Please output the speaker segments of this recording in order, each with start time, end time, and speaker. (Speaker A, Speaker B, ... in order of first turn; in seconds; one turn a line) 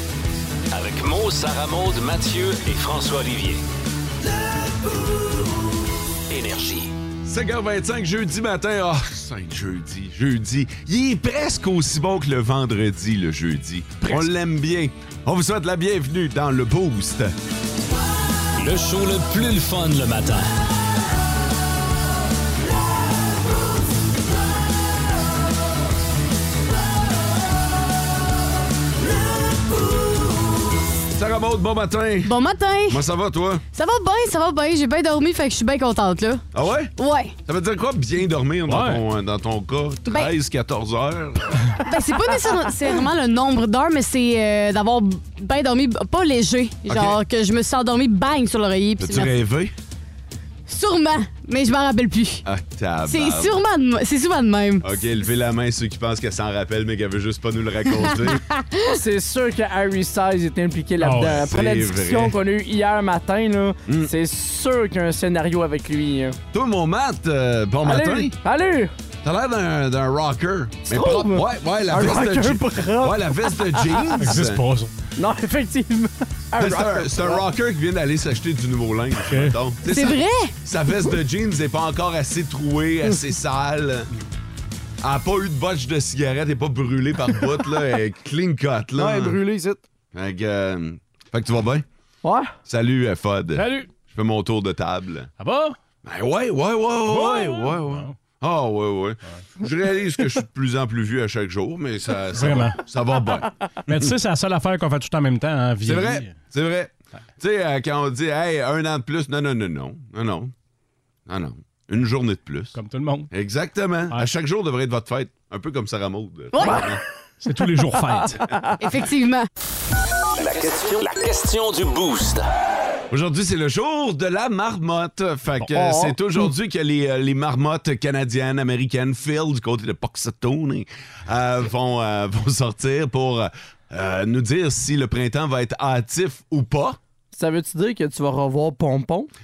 Speaker A: 0.7-3.6
Speaker A: 6.3-6.9
Speaker B: 7.3-17.3
Speaker A: 18.6-20.5
Speaker B: 31.1-32.4
Speaker C: 32.2-33.0
Speaker B: 32.9-33.6
Speaker C: 33.7-37.3
Speaker B: 36.5-36.9
Speaker B: 37.5-41.6
Speaker D: 38.7-39.0
Speaker C: 40.1-40.3
Speaker C: 41.8-49.3
Speaker B: 46.9-47.2
Speaker B: 49.0-49.7
Speaker C: 50.7-52.5
Speaker B: 52.5-53.6
Speaker C: 53.1-54.9
Speaker B: 54.8-58.4
Speaker C: 58.0-59.0
Speaker E: 58.9-66.4
Speaker D: 61.0-61.4
Speaker B: 61.4-62.4
Speaker B: 66.5-68.3
Speaker E: 67.8-68.9
Speaker B: 69.2-74.6
Speaker E: 70.9-74.0
Speaker D: 74.2-74.9
Speaker E: 75.2-77.4
Speaker B: 76.6-84.1
Speaker D: 79.3-79.6
Speaker C: 79.8-80.5
Speaker B: 85.0-89.4
Speaker E: 89.0-89.8
Speaker B: 90.1-91.8
Speaker E: 92.2-92.5
Speaker B: 92.7-95.3
Speaker D: 93.5-93.9
Speaker D: 95.4-95.8
Speaker B: 96.0-104.1
Speaker D: 97.1-98.2
Speaker D: 102.3-102.8
Speaker D: 103.9-106.4
Speaker B: 105.8-110.5
Speaker B: 111.3-112.8
Speaker D: 112.7-113.3
Speaker B: 113.3-117.0
Speaker C: 116.5-116.8
Speaker D: 117.4-118.5
Speaker C: 118.8-119.5
Speaker A: 120.3-122.5
Speaker B: 123.1-137.0
Speaker E: 125.7-126.5
Speaker E: 137.3-139.3